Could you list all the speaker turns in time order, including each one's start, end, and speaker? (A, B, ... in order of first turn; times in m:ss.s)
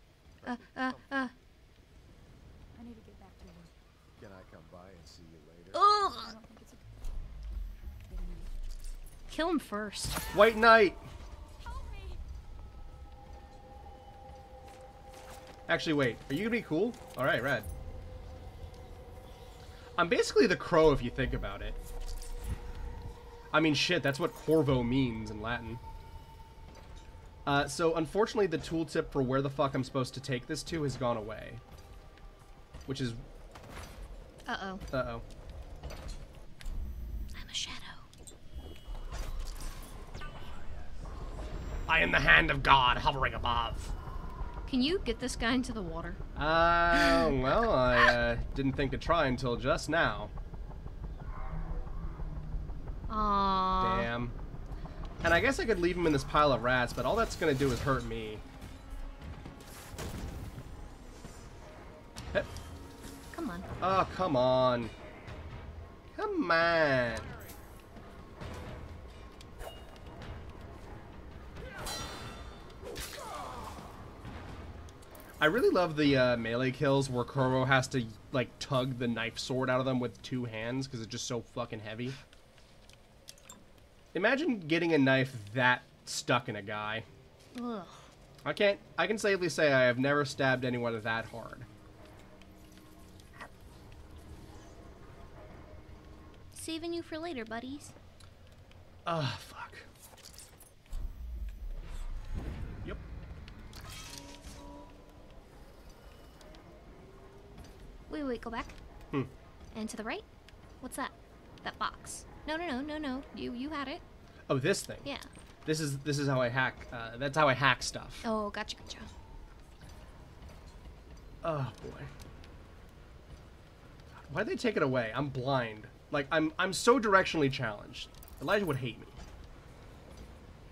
0:00.4-0:01.2 A
0:00.4-0:01.3 B
0:02.7-0:03.7 C
0:04.2-0:05.8 A
0:05.7-0:06.3 B
0:05.9-0:06.9 C
0:08.1-0:08.5 C
0:09.3-0:10.2 B
0:10.3-0:11.0 D
0:11.6-0:12.2 C
0:15.7-0:17.7 D
0:20.0-0:21.8 D
0:23.5-0:25.8 D
0:27.4-0:31.6 D
0:32.9-0:33.2 D
0:34.5-0:34.8 B
0:34.9-0:35.2 D
0:37.3-0:38.0 B
0:41.9-0:43.9 D
0:44.6-0:46.2 B
0:46.3-0:50.3 D
0:46.9-0:47.3 B
0:53.1-0:54.1 B
0:53.8-0:54.4 D
0:55.2-0:58.4 D
1:03.3-1:03.6 B
1:03.8-1:04.9 D
1:06.2-1:07.3 D
1:15.4-1:22.2 D
1:24.1-1:27.0 D
1:27.5-1:28.0 B
1:28.4-1:31.7 D
1:36.5-1:37.9 B
1:39.0-1:39.9 D
1:48.1-1:48.7 B
1:49.7-1:50.2 B
1:50.8-1:54.0 B
1:54.5-1:55.1 D
1:55.6-1:58.2 D
1:58.2-1:59.1 B
2:01.4-2:02.1 D
2:04.2-2:09.2 D